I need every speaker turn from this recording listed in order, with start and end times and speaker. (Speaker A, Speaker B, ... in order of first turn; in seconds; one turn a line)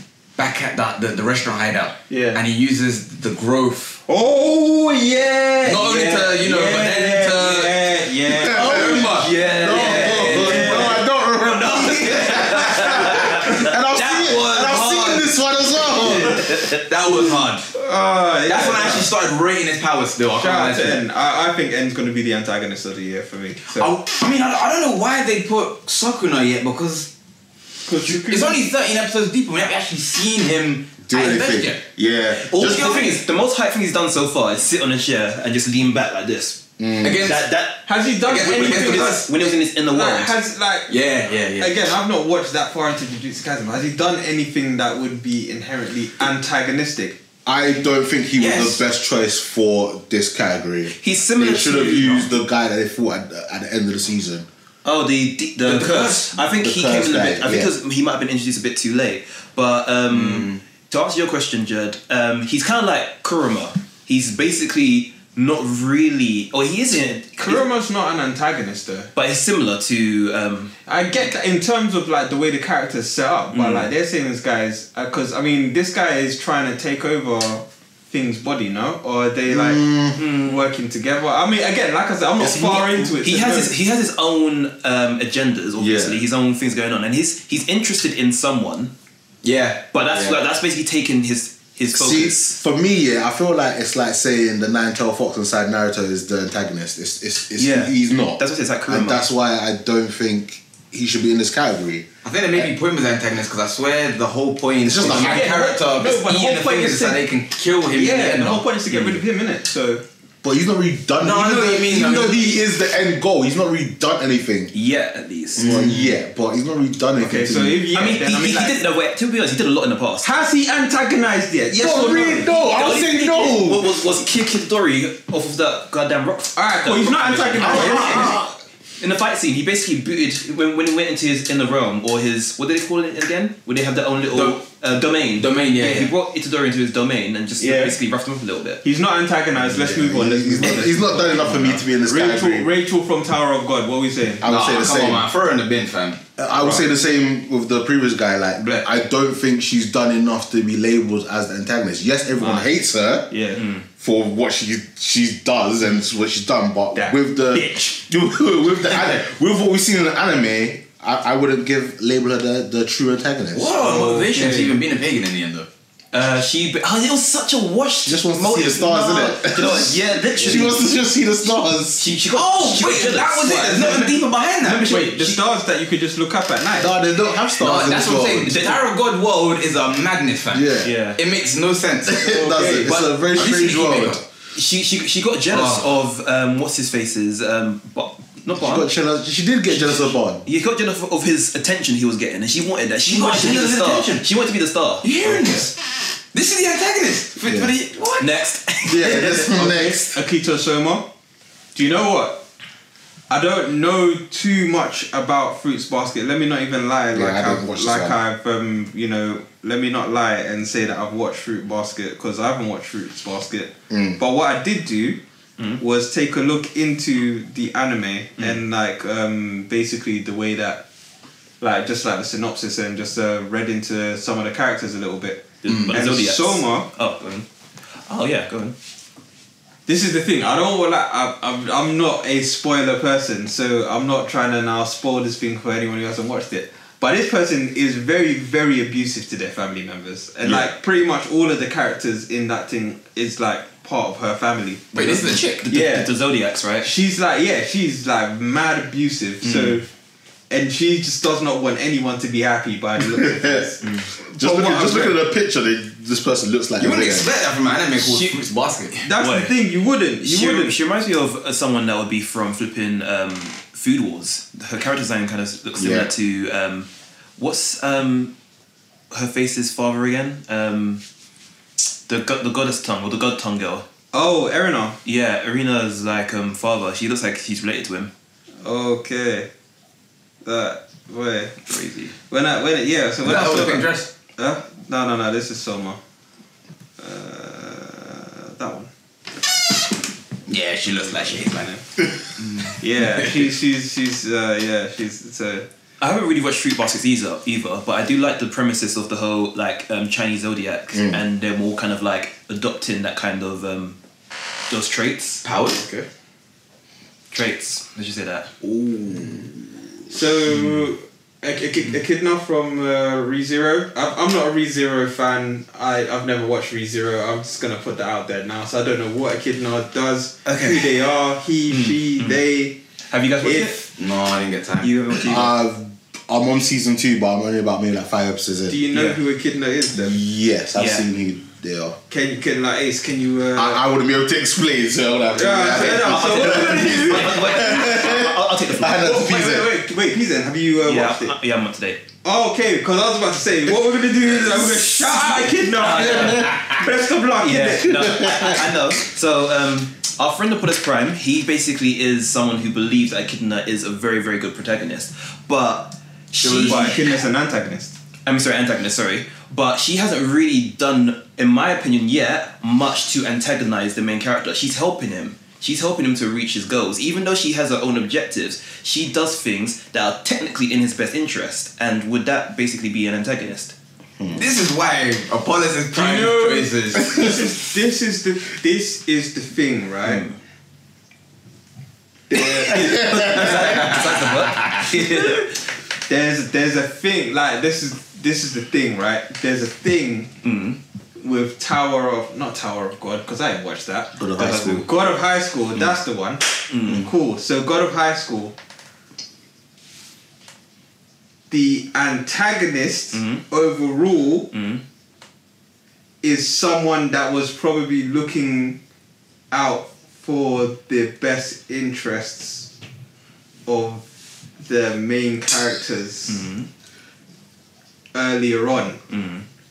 Speaker A: 0.4-4.0
Speaker B: 2.1-2.4
Speaker B: 4.1-8.9
Speaker A: 5.6-10.7
Speaker C: 8.4-16.6
Speaker D: 8.8-15.3
Speaker B: 9.8-11.0
Speaker D: 15.8-16.8
Speaker A: 16.1-17.7
Speaker B: 17.7-19.1
Speaker A: 18.5-21.0
Speaker B: 20.3-23.9
Speaker A: 23.8-27.1
Speaker B: 27.9-28.6
Speaker A: 28.0-31.8
Speaker C: 31.1-33.1
Speaker D: 32.4-36.6
Speaker A: 32.7-33.2
Speaker C: 36.8-37.3
Speaker A: 37.0-37.5
Speaker D: 37.2-40.4
Speaker B: 37.9-41.0
Speaker A: 38.2-39.3
Speaker A: 40.9-41.9
Speaker B: 41.6-47.2
Speaker C: 47.5-54.5
Speaker A: 48.4-48.8
Speaker D: 51.0-52.3
Speaker D: 54.9-67.6
Speaker A: 55.6-56.4
Speaker C: 56.6-57.7
Speaker A: 60.1-60.6
Speaker B: 67.4-69.1
Speaker D: 69.2-70.7
Speaker B: 70.9-83.7
Speaker D: 73.5-73.9
Speaker C: 79.5-80.2
Speaker D: 80.2-80.6
Speaker C: 82.4-82.9
Speaker D: 83.2-88.9
Speaker C: 85.8-86.2
Speaker A: 89.4-90.4
Speaker D: 89.9-92.6
Speaker C: 91.9-102.7
Speaker D: 97.6-99.2
Speaker A: 102.2-108.7
Speaker C: 104.8-105.5
Speaker B: 105.0-107.2
Speaker B: 107.9-110.0
Speaker D: 108.9-109.2
Speaker C: 110.4-114.7
Speaker A: 111.2-112.5
Speaker D: 114.7-115.8
Speaker A: 115.6-116.1
Speaker C: 115.6-117.8
Speaker B: 117.2-118.8
Speaker D: 117.9-120.4
Speaker B: 120.2-122.5
Speaker C: 121.7-123.9
Speaker D: 122.3-128.4
Speaker B: 126.6-128.4
Speaker C: 127.6-128.6
Speaker D: 129.0-138.8
Speaker A: 134.3-134.6
Speaker A: 135.4-136.1
Speaker B: 137.6-138.0
Speaker B: 138.8-141.3
Speaker C: 139.6-142.7
Speaker D: 141.4-141.8
Speaker B: 142.0-144.5
Speaker C: 144.4-145.3
Speaker A: 144.4-146.2
Speaker C: 146.4-153.3
Speaker B: 146.6-146.9
Speaker B: 148.6-148.9
Speaker B: 152.4-152.8
Speaker B: 153.3-153.6
Speaker D: 153.6-153.8
Speaker C: 154.0-163.8
Speaker B: 156.9-157.7
Speaker A: 163.5-165.7
Speaker B: 163.8-164.8
Speaker D: 166.1-170.8
Speaker C: 168.1-172.1
Speaker D: 172.0-175.4
Speaker A: 172.3-175.1
Speaker B: 174.7-176.9
Speaker C: 176.8-178.6
Speaker A: 177.6-184.2
Speaker D: 178.4-178.8
Speaker C: 180.5-180.9
Speaker D: 180.8-181.2
Speaker C: 182.1-184.2
Speaker B: 182.3-182.9
Speaker D: 184.6-188.9
Speaker A: 185.5-185.9
Speaker C: 188.6-190.4
Speaker D: 189.7-195.6
Speaker A: 193.1-194.3
Speaker A: 195.0-195.8
Speaker A: 196.3-198.3
Speaker C: 197.4-197.7
Speaker D: 198.2-199.6
Speaker C: 198.8-200.1
Speaker B: 199.6-201.1
Speaker A: 199.6-199.9
Speaker B: 201.8-202.4
Speaker B: 203.3-215.2
Speaker C: 207.1-208.2
Speaker C: 213.9-214.2
Speaker B: 215.8-220.8
Speaker B: 221.6-226.9
Speaker D: 225.6-228.8
Speaker A: 225.7-225.9
Speaker B: 229.9-246.1
Speaker C: 240.4-240.7
Speaker A: 244.9-245.7
Speaker D: 245.0-246.9
Speaker B: 246.8-249.9
Speaker B: 250.5-255.2
Speaker C: 253.2-253.7
Speaker C: 254.3-257.3
Speaker A: 256.8-259.0
Speaker D: 258.0-259.6
Speaker B: 259.1-260.8
Speaker D: 260.2-268.3
Speaker C: 265.8-266.1
Speaker D: 269.1-271.0
Speaker D: 272.1-273.8
Speaker B: 274.1-275.0
Speaker D: 275.1-278.1
Speaker B: 278.6-279.5
Speaker B: 280.4-281.6
Speaker D: 281.7-282.1
Speaker B: 282.3-286.0
Speaker A: 283.2-284.1
Speaker B: 287.0-288.9
Speaker A: 290.5-291.7
Speaker B: 290.9-291.9
Speaker A: 292.4-293.5
Speaker B: 292.8-295.7
Speaker D: 296.0-304.0
Speaker C: 300.9-301.2
Speaker D: 304.7-305.5
Speaker A: 305.4-305.9
Speaker D: 307.3-308.5
Speaker A: 308.9-309.4
Speaker B: 310.1-322.8
Speaker D: 320.4-320.9
Speaker D: 321.7-322.4
Speaker D: 323.1-323.9
Speaker B: 323.4-323.8
Speaker A: 324.0-324.9
Speaker D: 324.8-325.5
Speaker C: 325.2-328.8
Speaker B: 328.7-330.2
Speaker D: 328.9-329.2
Speaker C: 329.9-332.0
Speaker D: 330.8-331.1
Speaker B: 332.1-333.8
Speaker C: 333.6-339.7
Speaker B: 335.3-337.6
Speaker D: 335.7-339.1
Speaker B: 339.0-341.4
Speaker D: 340.8-342.0
Speaker B: 342.2-348.1
Speaker D: 344.6-346.8
Speaker C: 346.0-346.7
Speaker D: 347.4-357.2
Speaker C: 347.9-348.7
Speaker B: 356.4-357.9
Speaker A: 356.5-356.8
Speaker D: 358.3-373.8
Speaker A: 374.3-377.3
Speaker B: 375.9-380.2
Speaker D: 380.0-380.4
Speaker B: 382.3-383.3
Speaker C: 382.3-383.9
Speaker D: 382.4-385.6
Speaker A: 383.3-384.7
Speaker B: 386.1-390.3
Speaker D: 390.4-390.8
Speaker B: 391.2-398.5
Speaker C: 394.2-394.9
Speaker D: 394.4-394.9
Speaker D: 396.7-397.1
Speaker B: 401.5-404.5
Speaker D: 403.1-403.4
Speaker D: 404.5-404.8
Speaker B: 406.2-408.8
Speaker B: 409.5-412.7
Speaker B: 413.7-414.1
Speaker B: 414.6-416.5
Speaker D: 416.3-416.7
Speaker B: 418.1-419.0
Speaker D: 419.1-419.5